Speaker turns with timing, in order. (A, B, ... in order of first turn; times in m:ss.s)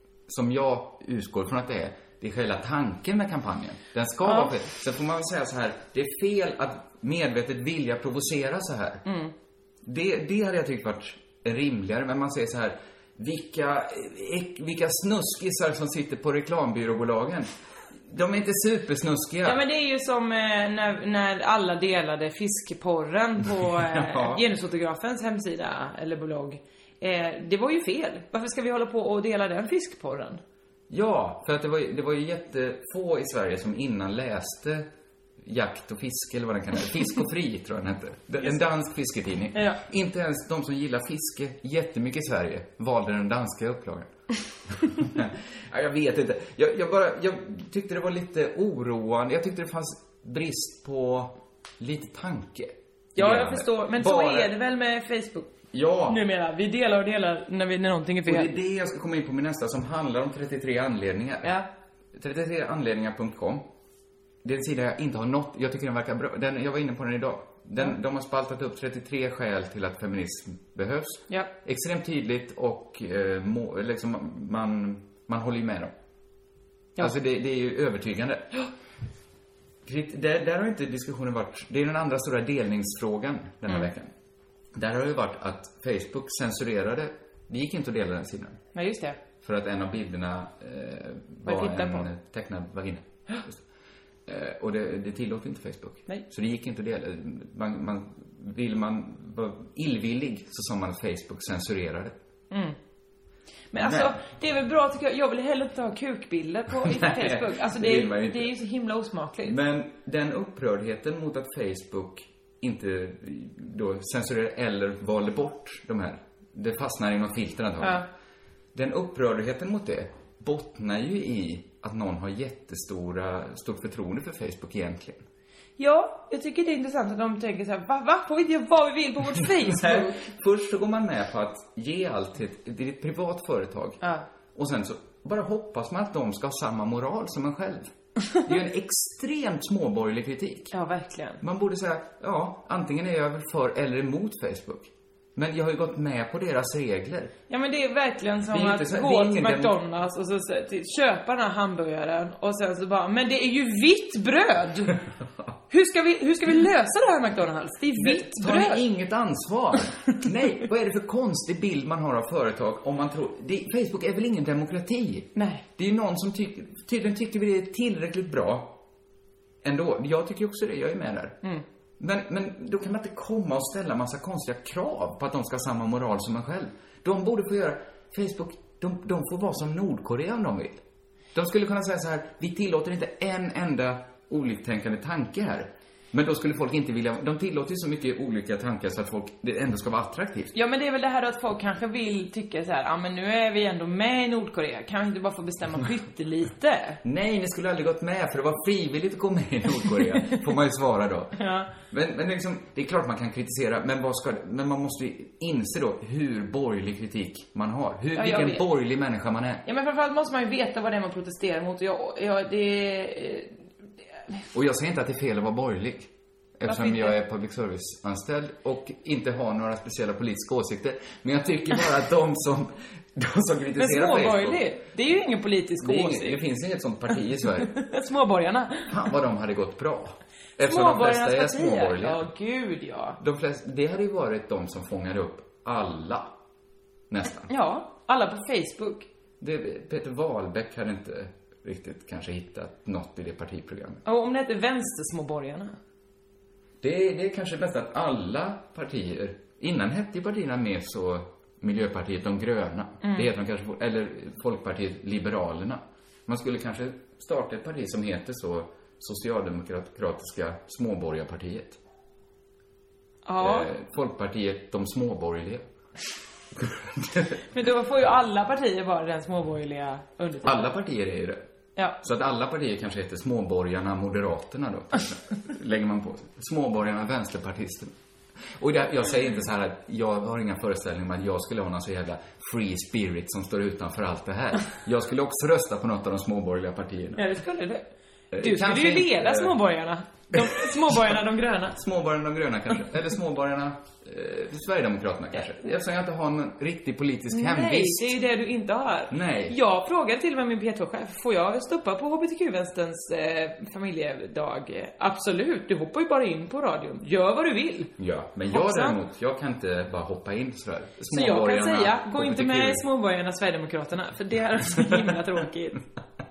0:00.3-0:09.1 A
0:04.2-0:04.5 B
0:09.1-0:09.3 B
0:09.8-0:17.5 A
0:18.1-0:19.6 A
0:19.4-0:30.4 B
0:23.6-0:24.4 A
0:30.9-0:34.9 A
0:35.4-0:44.1 A
0:39.5-0:39.8 B
0:44.7-0:54.5 A
0:53.2-0:55.5 B
0:55.7-0:56.2 A
0:56.1-0:58.5 B
0:58.2-1:01.6 A
1:02.2-1:03.7 A
1:04.4-1:15.9 A
1:17.0-1:18.5 A
1:19.8-1:24.1 A
1:24.7-1:28.6 A
1:28.8-1:29.2 B
1:29.4-1:33.6 A
1:31.5-1:32.1 B
1:34.3-1:42.2 A
1:42.5-1:42.8 B
1:43.7-1:49.6 B
1:43.8-1:44.1 A
1:46.8-1:48.6 A
1:49.4-1:58.1 A
1:57.8-1:58.1 B
1:58.7-2:05.2 A
2:05.8-2:10.2 B
2:09.4-2:14.0 A
2:14.6-2:17.9 A
2:18.4-2:20.7 A
2:20.7-2:21.4 B
2:21.4-2:27.4 A
2:27.5-2:35.0 B
2:28.5-2:29.8 A
2:35.7-2:38.8 B
2:38.0-2:48.8 A
2:45.4-2:45.6 B
2:49.6-2:51.4 A
2:52.0-3:00.8 A
3:01.3-3:10.5 A
3:10.5-3:17.0 B
3:17.0-3:29.6 A
3:21.4-3:21.7 B
3:28.2-3:28.6 B
3:29.7-3:33.6 B
3:34.5-3:44.7 A
3:36.7-3:37.2 B
3:43.8-3:46.4 B
3:45.8-3:47.8 A
3:47.6-3:48.9 B
3:48.9-3:52.3 A
3:50.6-3:53.2 B
3:53.2-3:56.3 A
3:57.1-3:57.5 A
3:57.5-3:59.1 B
3:59.4-4:04.0 A
4:04.0-4:05.8 B
4:06.8-4:21.8 A
4:13.0-4:13.3 B
4:23.3-4:23.7 B
4:23.4-4:25.6 A
4:26.6-4:27.4 A
4:27.5-4:30.7 B
4:30.4-4:31.4 A
4:32.0-4:37.9 A
4:38.5-4:47.3 A
4:47.2-4:47.9 B
4:48.3-4:49.6 A
4:48.4-4:51.8 B
4:50.3-4:51.1 A
4:51.7-4:58.2 A
4:57.3-5:07.9 B
4:59.1-4:59.6 A
5:08.0-5:12.9 A
5:08.5-5:09.0 B
5:11.1-5:15.8 B